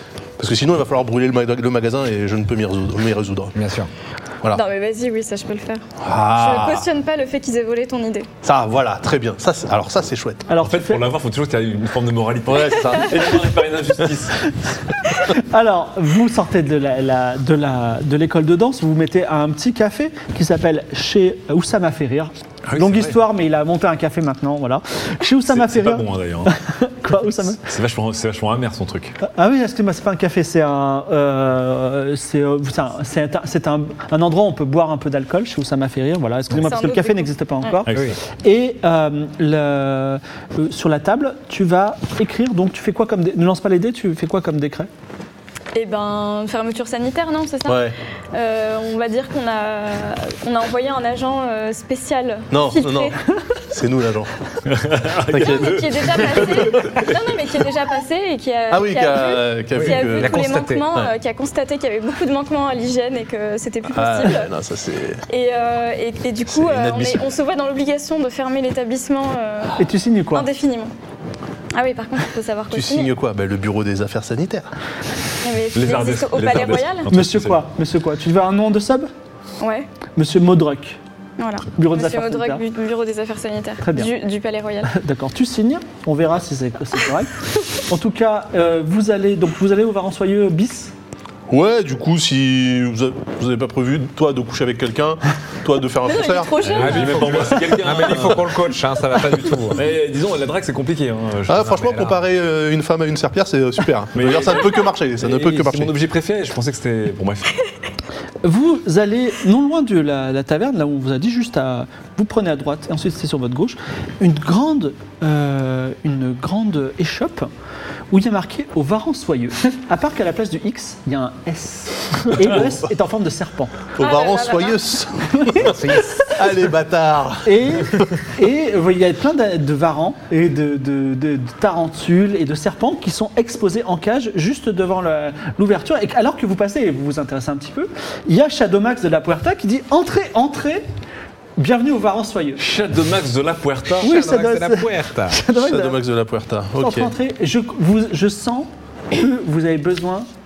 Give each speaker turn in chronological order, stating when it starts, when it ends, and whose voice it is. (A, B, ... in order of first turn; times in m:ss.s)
0:00.4-0:03.5 A
0:03.6-0:03.9 B
0:04.5-0:08.3 C
0:06.0-0:06.9 A
0:08.4-0:10.5 A
0:10.5-0:11.0 D
0:10.6-0:14.6 E
0:12.5-0:13.2 A
0:15.3-0:27.6 D
0:22.7-0:23.2 E
0:25.5-0:26.6 E
0:27.4-0:29.2 E
0:29.2-0:44.9 D
0:36.5-0:37.8 C
0:37.9-0:38.2 E
0:37.9-0:38.2 B
0:45.8-0:53.2 C
0:47.7-0:48.0 A
0:52.5-0:53.2 A
0:53.7-0:54.3 A
0:54.7-0:57.2 E
0:55.3-0:55.7 A
0:55.4-1:04.5 C
0:58.7-1:00.4 A
0:59.7-1:00.9 B
1:03.9-1:05.2 A
1:05.3-1:09.8 C
1:06.5-1:07.3 A
1:09.8-1:10.5 D
1:10.3-1:10.9 C
1:11.7-1:13.1 C
1:12.7-1:14.7 A
1:15.4-1:17.1 C
1:15.7-1:17.7 E
1:17.1-1:19.1 D
1:19.6-1:19.9 C
1:20.2-1:21.0 D
1:21.4-1:24.9 C
1:21.8-1:22.6 D
1:23.8-1:24.1 D
1:24.9-1:27.3 D
1:27.9-1:30.9 D
1:31.5-1:36.6 A
1:36.0-1:37.8 C
1:36.6-1:38.6 E
1:36.8-1:39.9 B
1:39.7-1:42.2 E
1:41.5-1:45.9 A
1:44.1-1:47.6 E
1:48.4-1:57.5 D
1:58.1-2:03.8 D
2:04.0-2:08.1 A
2:04.0-2:04.8 C
2:05.6-2:06.4 B
2:07.4-2:20.9 D
2:21.6-2:22.6 D
2:22.6-2:24.1 E
2:24.0-2:25.4 B
2:24.0-2:26.0 D
2:25.5-2:27.1 A
2:26.8-2:30.3 D